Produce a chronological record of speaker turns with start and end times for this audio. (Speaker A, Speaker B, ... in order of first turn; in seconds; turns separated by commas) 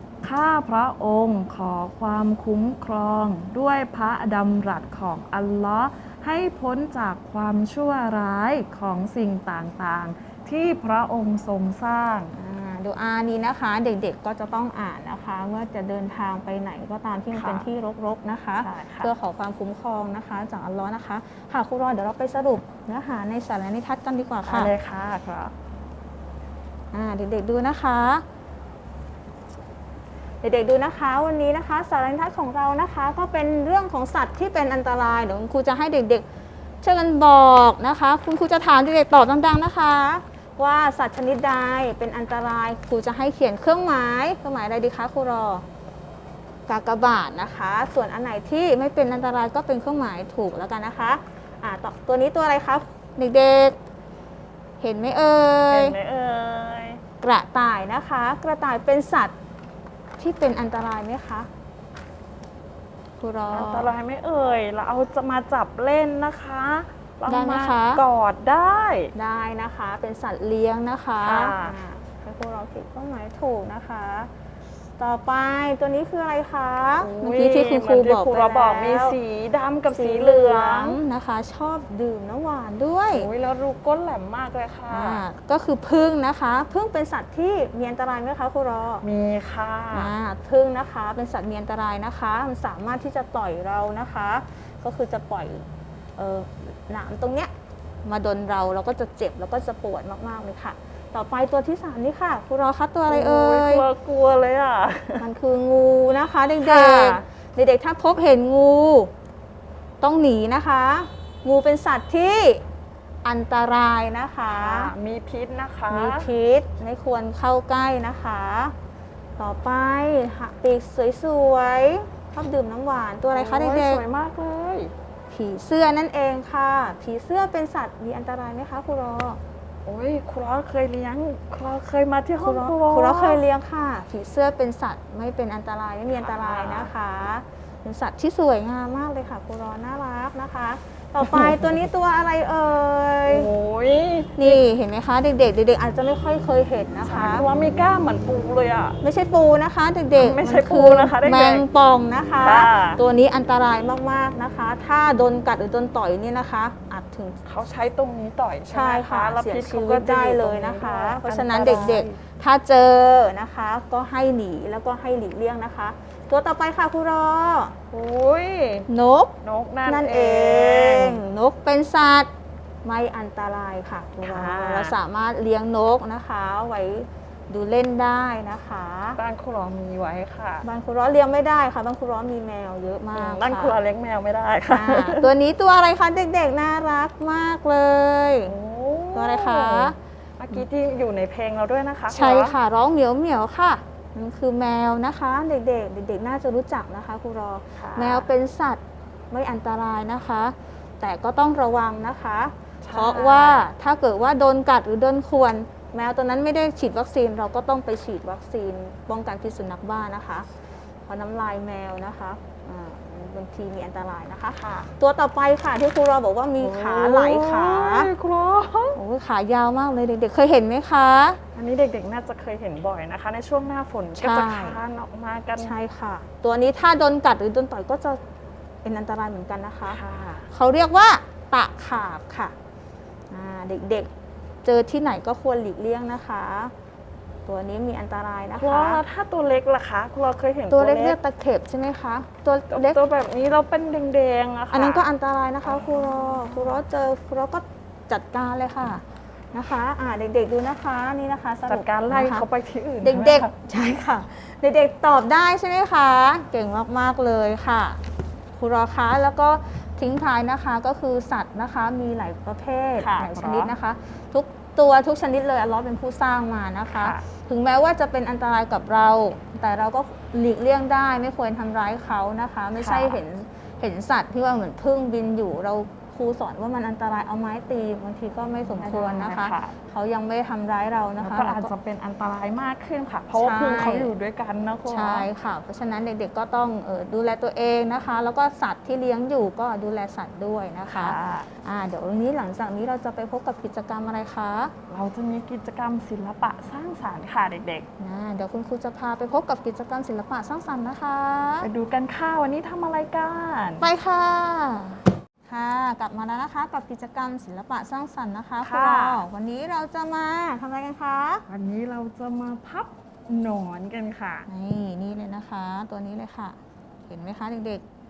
Speaker A: 0.2-12.3, Speaker B: 12.3-24.7, Speaker A: 17.3-17.7, Speaker A: 18.6-19.1, Speaker A: 24.4-25.5, Speaker B: 26.9-28.2, Speaker B: 30.4-36.2, Speaker B: 36.8-45.6, Speaker B: 46.7-53.8, Speaker B: 54.8-56.0, Speaker A: 55.7-57.0, Speaker B: 57.2-59.3, Speaker B: 60.2-61.5, Speaker B: 63.2-63.9, Speaker A: 63.5-69.1, Speaker B: 67.3-68.0, Speaker B: 69.2-74.3, Speaker A: 71.2-71.8, Speaker B: 75.0-79.2, Speaker A: 77.0-81.0, Speaker B: 79.9-83.3, Speaker A: 83.1-85.2, Speaker B: 84.9-89.0, Speaker A: 89.0-90.1, Speaker B: 89.9-97.5, Speaker B: 98.0-103.9, Speaker A: 103.1-105.3, Speaker B: 105.2-109.1, Speaker A: 106.6-107.2, Speaker B: 110.0-112.6, Speaker B: 113.2-114.9, Speaker A: 114.5-116.3, Speaker B: 115.9-118.8, Speaker B: 119.4-124.0, Speaker A: 123.3-124.9, Speaker B: 125.3-129.4, Speaker A: 129.8-133.4, Speaker B: 132.4-143.5, Speaker A: 136.1-136.9, Speaker A: 141.2-141.9, Speaker A: 143.3-144.6, Speaker B: 144.4-147.5, Speaker A: 147.1-149.0, Speaker B: 149.0-157.4, Speaker A: 150.2-151.7, Speaker A: 152.4-153.0, Speaker A: 157.4-162.2, Speaker B: 158.7-167.8, Speaker A: 167.9-168.9, Speaker B: 168.9-172.3, Speaker A: 169.4-171.2, Speaker B: 172.8-179.2, Speaker A: 174.2-175.0, Speaker A: 179.2-180.7, Speaker B: 180.6-183.8, Speaker A: 183.1-185.3, Speaker B: 184.7-188.5, Speaker A: 188.4-192.6, Speaker B: 189.1-190.0, Speaker B: 192.1-210.5, Speaker A: 197.8-198.3, Speaker A: 202.8-203.7, Speaker B: 211.1-218.1, Speaker A: 216.6-219.0, Speaker B: 218.9-221.4, Speaker A: 221.6-225.7, Speaker B: 224.2-224.8, Speaker B: 225.6-228.2, Speaker B: 228.8-232.6, Speaker A: 229.9-230.5, Speaker B: 233.3-234.1, Speaker B: 234.6-236.7, Speaker B: 237.5-239.0, Speaker A: 238.6-241.2, Speaker B: 240.7-243.0, Speaker A: 242.7-245.1, Speaker B: 244.7-252.5, Speaker A: 245.6-246.8, Speaker A: 251.7-253.5, Speaker B: 253.0-258.0, Speaker B: 258.5-281.7, Speaker A: 263.0-263.8, Speaker A: 267.0-267.2, Speaker A: 272.8-273.2, Speaker A: 278.8-279.8, Speaker A: 281.2-285.3, Speaker B: 283.4-284.1, Speaker B: 284.9-294.7, Speaker A: 290.9-291.5, Speaker A: 294.9-297.9, Speaker B: 298.0-301.7, Speaker A: 301.6-303.9, Speaker B: 303.8-311.4, Speaker A: 308.6-309.2, Speaker A: 311.5-314.5, Speaker B: 314.5-317.8